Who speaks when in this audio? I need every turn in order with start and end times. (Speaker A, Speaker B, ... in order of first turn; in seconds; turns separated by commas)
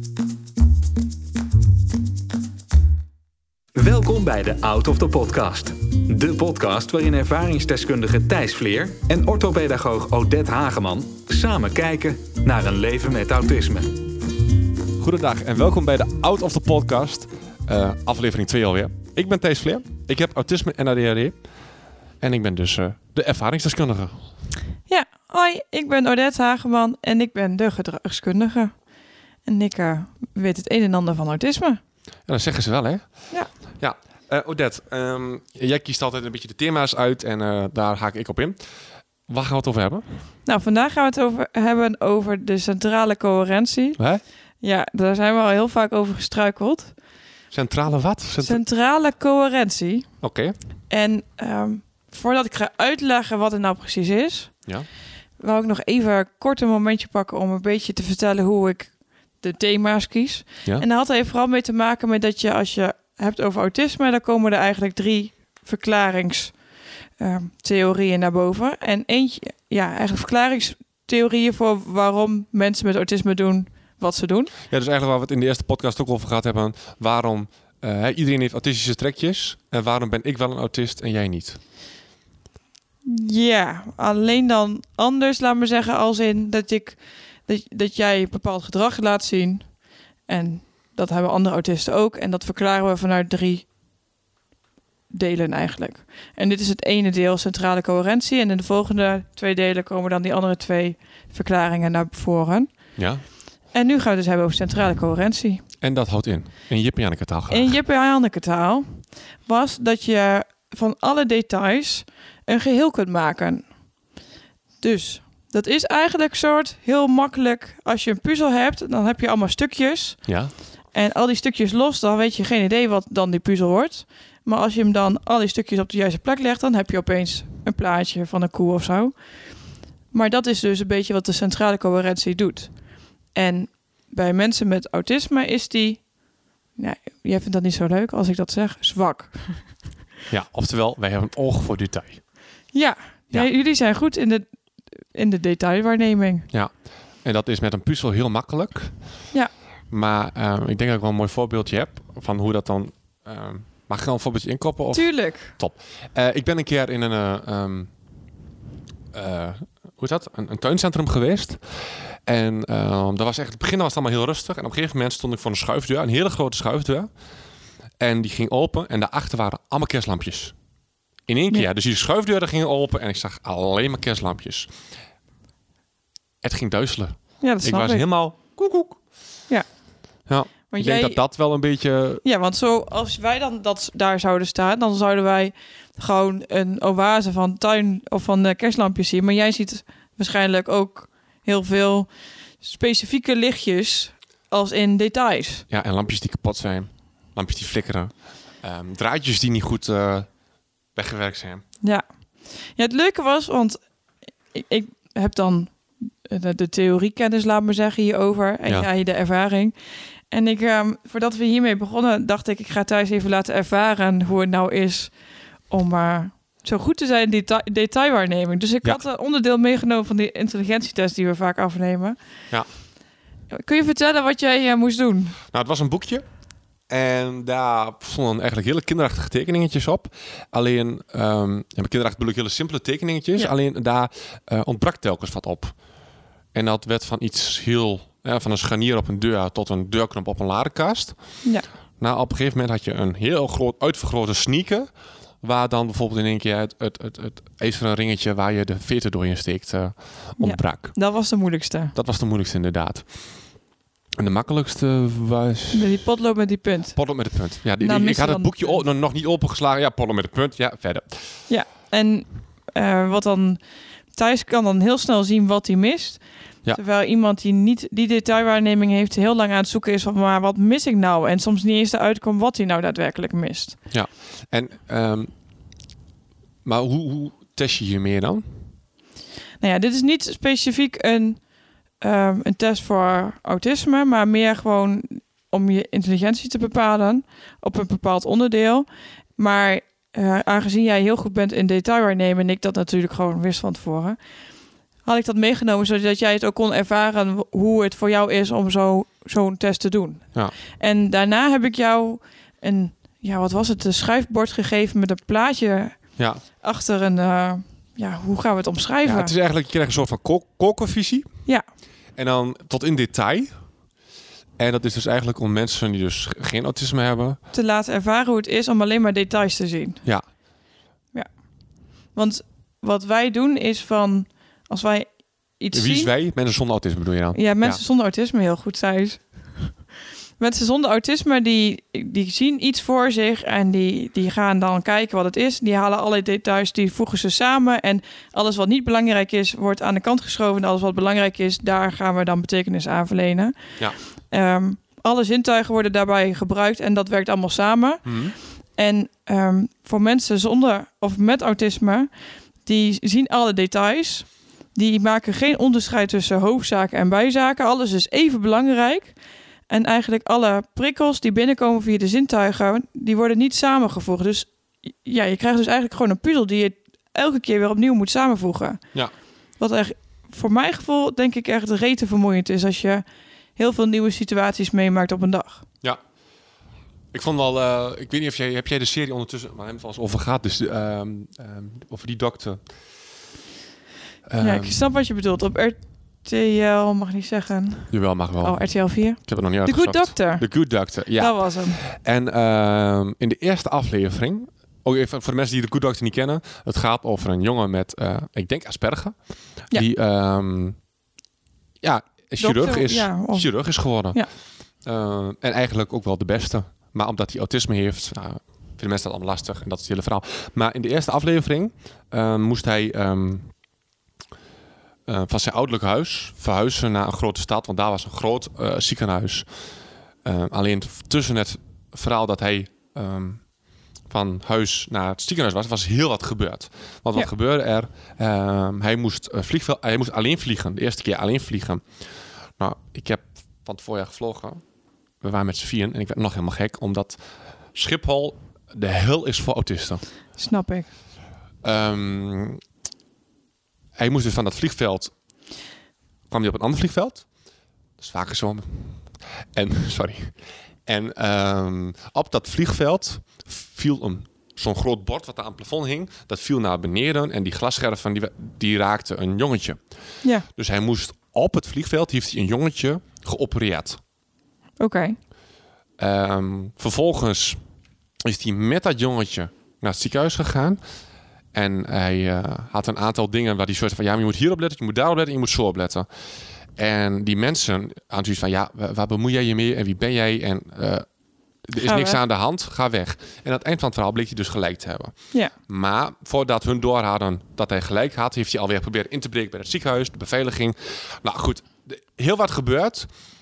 Speaker A: 3.8-14.0, Speaker B: 15.0-21.4, Speaker B: 22.2-24.2, Speaker C: 24.9-28.7, Speaker C: 29.4-31.8, Speaker B: 32.3-33.1, Speaker B: 33.8-38.6, Speaker B: 39.3-40.0, Speaker C: 40.5-44.0, Speaker B: 44.0-44.2, Speaker C: 44.6-46.9, Speaker B: 47.5-48.6, Speaker C: 48.4-50.1, Speaker B: 50.2-50.5, Speaker C: 50.9-54.6, Speaker C: 55.4-66.6, Speaker C: 67.2-74.5, Speaker B: 74.7-81.6, Speaker C: 83.0-89.7, Speaker C: 90.3-93.6, Speaker C: 95.1-102.7, Speaker B: 103.0-103.2, Speaker C: 103.7-105.6, Speaker B: 105.8-107.7, Speaker C: 107.5-113.7, Speaker C: 114.8-120.4, Speaker B: 120.2-120.5, Speaker C: 120.9-129.1, Speaker C: 130.1-132.7, Speaker C: 133.3-136.1, Speaker C: 136.8-139.9, Speaker B: 140.3-142.2, Speaker C: 142.7-144.4, Speaker C: 145.1-146.5, Speaker B: 146.5-149.0, Speaker B: 149.9-157.9, Speaker C: 154.9-155.5, Speaker B: 159.1-161.6, Speaker B: 162.2-167.1, Speaker B: 168.0-170.5, Speaker B: 171.3-174.7, Speaker B: 176.4-179.0, Speaker C: 177.4-178.0, Speaker B: 180.3-182.2, Speaker C: 180.7-181.2, Speaker C: 182.2-192.1, Speaker C: 192.6-195.7, Speaker B: 195.7-200.3, Speaker B: 200.9-201.6, Speaker C: 202.8-203.8, Speaker C: 204.5-209.7, Speaker C: 210.3-215.1, Speaker C: 215.7-222.2, Speaker C: 223.5-225.4, Speaker B: 225.5-226.2, Speaker B: 226.9-235.7, Speaker B: 236.5-241.2, Speaker B: 242.0-244.9, Speaker B: 245.4-250.9, Speaker C: 250.4-251.9, Speaker B: 251.9-253.1, Speaker B: 254.2-256.1, Speaker C: 255.7-257.0, Speaker B: 256.9-261.2, Speaker C: 257.8-258.8, Speaker C: 261.5-263.6, Speaker C: 264.1-273.8, Speaker B: 273.9-275.3, Speaker B: 276.6-278.6, Speaker C: 279.6-281.4, Speaker C: 282.0-294.2, Speaker C: 295.0-306.0, Speaker B: 306.2-306.4, Speaker C: 306.6-309.3, Speaker B: 309.0-311.3, Speaker B: 312.1-313.5, Speaker B: 314.6-317.4, Speaker C: 317.5-320.0, Speaker C: 322.1-325.1, Speaker C: 325.6-326.1, Speaker B: 325.7-327.8, Speaker C: 327.3-329.8, Speaker C: 330.4-352.1, Speaker B: 348.0-348.3, Speaker C: 352.6-359.1, Speaker C: 359.7-364.5, Speaker C: 365.0-368.8, Speaker C: 369.6-373.0, Speaker C: 373.6-375.6, Speaker B: 377.1-382.6, Speaker B: 384.3-384.9, Speaker C: 384.4-390.5, Speaker B: 387.9-399.1, Speaker C: 391.1-391.8, Speaker B: 399.7-400.8, Speaker B: 401.8-404.2, Speaker C: 402.4-404.3, Speaker B: 404.8-413.5, Speaker B: 415.1-419.5, Speaker B: 420.2-423.4, Speaker B: 424.1-431.8, Speaker B: 432.6-434.6, Speaker B: 435.2-437.2, Speaker B: 437.7-440.0, Speaker C: 440.4-440.9, Speaker B: 441.6-442.6, Speaker B: 444.0-445.1, Speaker B: 446.3-447.3, Speaker B: 448.0-450.3, Speaker B: 450.9-459.8, Speaker B: 460.5-464.0, Speaker C: 464.8-465.2, Speaker B: 466.0-467.6, Speaker B: 468.2-470.8, Speaker B: 471.5-476.1, Speaker B: 476.8-481.1, Speaker B: 481.6-485.1, Speaker C: 481.8-482.2, Speaker B: 485.7-493.1